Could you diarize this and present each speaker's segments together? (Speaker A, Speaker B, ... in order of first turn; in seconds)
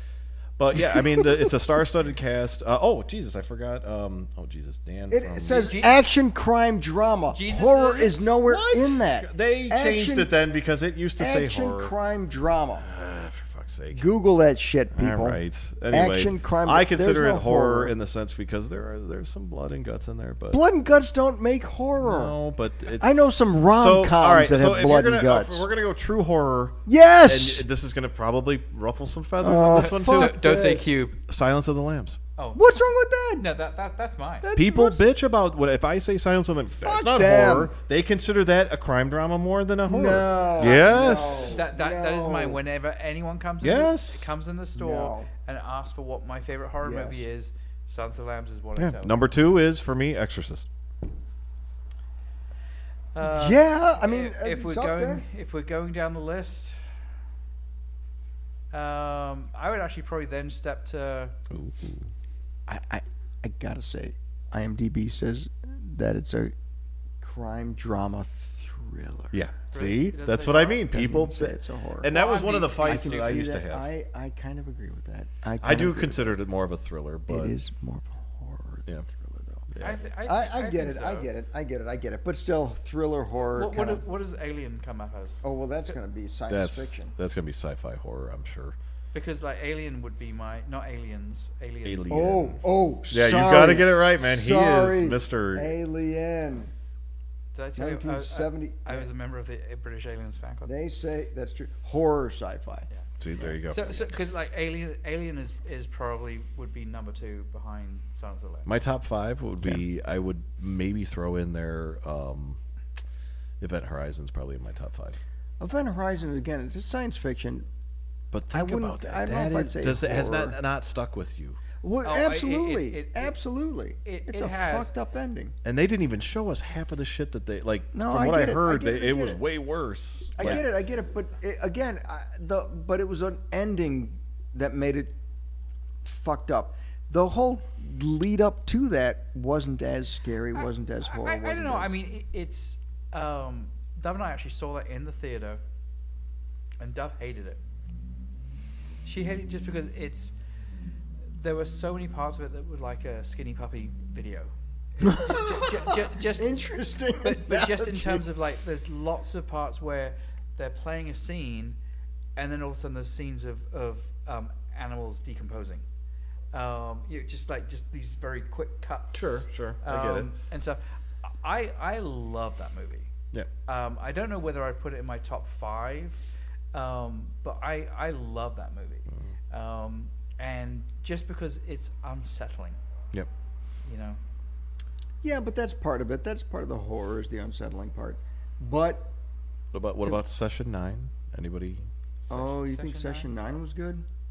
Speaker A: 0.6-5.8, 8.4-11.9, 12.8-14.1, 14.9-20.6, 22.0-23.1, 23.8-30.6, 31.3-32.2, 34.5-41.6, 43.6-44.3, 48.8-50.7, 61.5-62.1, 69.3-73.9, 75.6-77.6, 79.7-80.0, 86.5-88.8, 91.8-95.7, 103.2-104.1, 108.7-112.6, 113.6-115.2, 118.3-121.6, 125.6-130.6, 169.1-170.3, 189.7-191.9
Speaker B: 0.8-1.6, 5.1-10.3, 11.2-12.9, 13.9-17.9, 20.5-22.4, 23.0-25.7, 26.9-27.7, 29.4-30.9, 32.5-33.5, 34.4-35.0, 36.8-37.7, 39.9-42.6, 44.8-45.3, 46.8-47.2, 53.2-55.3, 62.7-66.5, 67.2-69.4, 70.9-72.2, 72.8-76.3, 77.3-79.7, 80.2-84.0, 85.4-87.1, 92.1-96.7, 97.8-99.1, 100.7-102.9, 115.6-117.7, 118.5-120.6, 121.8-125.5, 127.9-129.4, 130.4-135.2, 136.0-141.9, 155.0-158.3, 185.2-189.1, 192.3-194.1
Speaker C: 5.5-6.0, 7.3-8.3, 29.8-31.2, 32.4-32.6, 33.4-34.5, 40.6-49.2, 53.1-56.8, 58.7-61.3, 69.7-70.9, 72.1-73.4, 79.8-81.3, 83.4-85.9, 89.1-92.3, 97.5-100.7, 103.7-108.7, 122.0-123.3, 124.0-124.9, 140.5-145.6, 146.8-147.6, 149.0-150.3, 151.3-156.5, 157.2-161.8, 162.4-165.8, 166.5-173.1, 173.7-182.8, 183.8-184.2, 192.2-193.3